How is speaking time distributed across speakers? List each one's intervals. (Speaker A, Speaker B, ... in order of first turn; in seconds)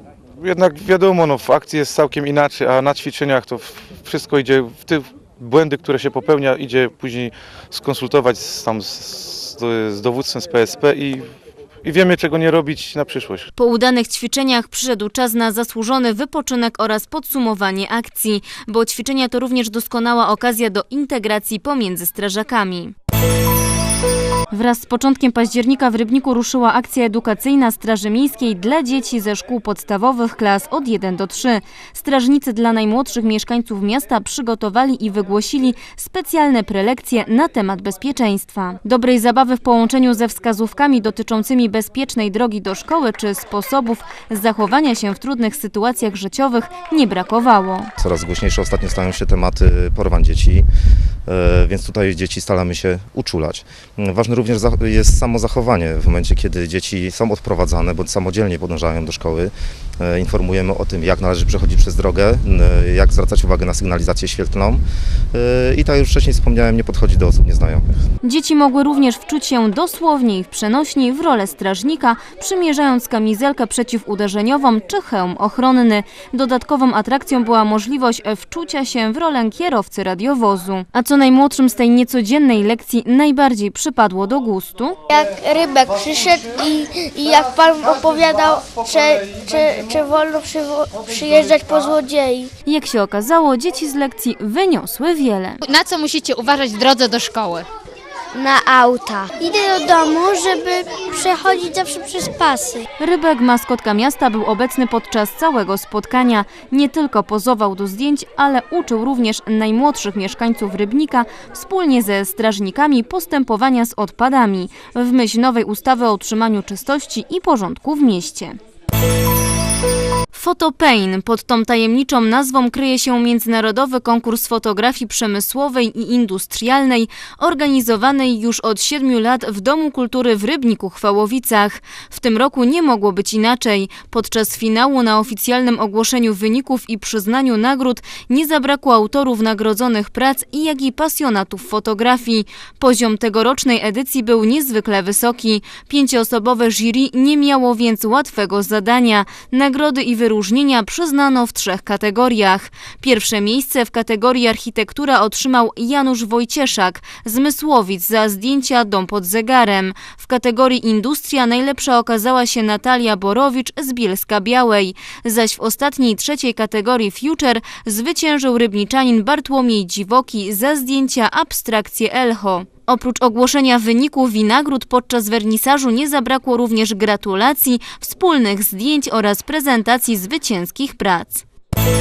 Speaker A: 0.4-11.3, 11.8-13.5
Speaker B: 13.6-22.9, 24.5-47.9, 68.2-85.0, 92.7-95.6, 103.0-118.6, 120.3-181.4
Speaker C: 48.0-50.7, 51.3-64.8, 65.3-67.8
Speaker D: 85.1-92.5, 98.3-102.8
Speaker E: 95.7-97.7